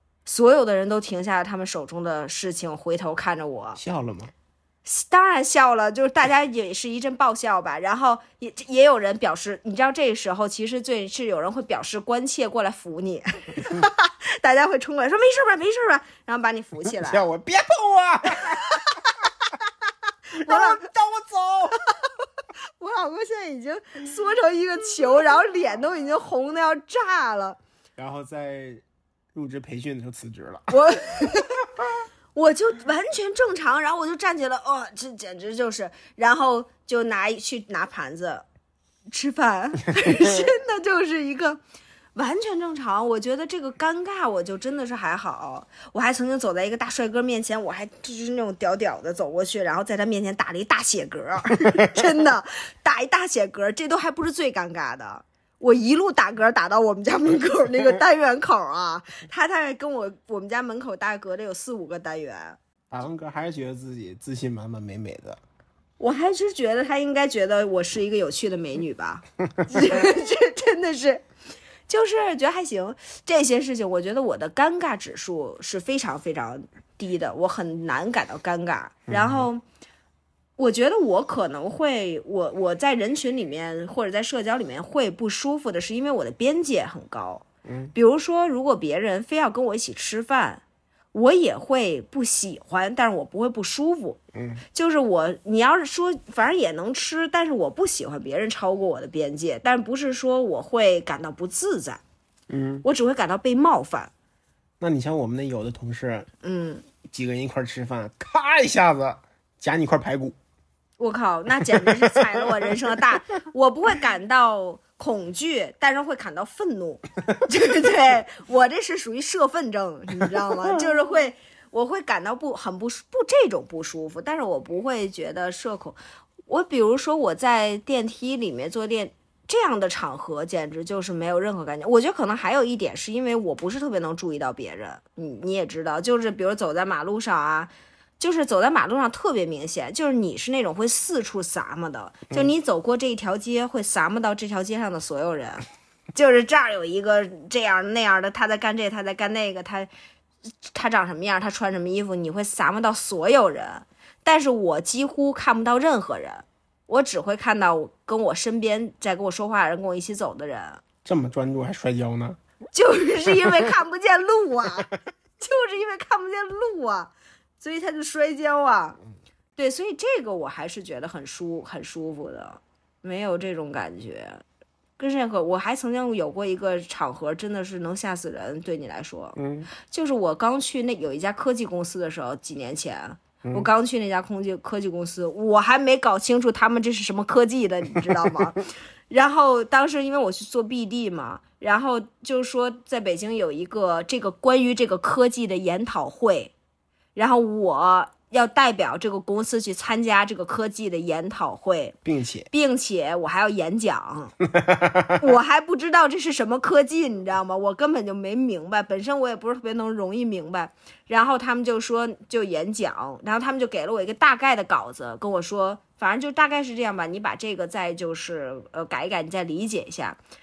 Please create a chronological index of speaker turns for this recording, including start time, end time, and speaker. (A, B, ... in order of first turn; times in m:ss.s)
0:00.2-0:03.8 A
0:03.8-0:04.3 B
0:04.8-0:17.2 A
0:16.9-0:19.0 B
0:18.5-0:18.9 A
0:20.3-0:20.9 A
0:20.4-0:21.8 B
0:22.8-0:27.6 A
0:28.0-0:28.8 B
0:29.3-0:31.9 B
0:30.7-0:31.7 A
0:32.4-0:38.5 A
0:39.1-0:41.6 A
0:40.0-0:40.4 B
0:42.2-1:02.6 A
0:51.6-0:52.0 B
1:02.9-1:05.4 B
1:06.0-1:11.2 A
1:11.9-1:19.6 A
1:19.1-1:19.5 B
1:20.6-1:30.6 A
1:27.6-1:27.9 B
1:31.1-1:34.2 A
1:34.3-1:34.6 B
1:34.7-1:42.0 A
1:42.5-1:42.8 B
1:42.8-1:44.1 A
1:44.8-1:46.3 B
1:46.4-1:46.8 A
1:47.0-1:50.4 B
1:51.0-2:29.9 A
1:51.7-1:52.7 B
2:30.7-2:40.8 A
2:41.0-2:42.4 B
2:42.7-2:49.0 A
2:43.3-2:43.7 B
2:49.6-2:54.4 A
2:55.0-3:16.5 A
2:59.4-2:59.7 B
3:17.2-3:22.0 A
3:22.0-3:22.5 B
3:22.5-3:24.4 A
3:24.5-3:25.2 B
3:25.2-3:40.2 A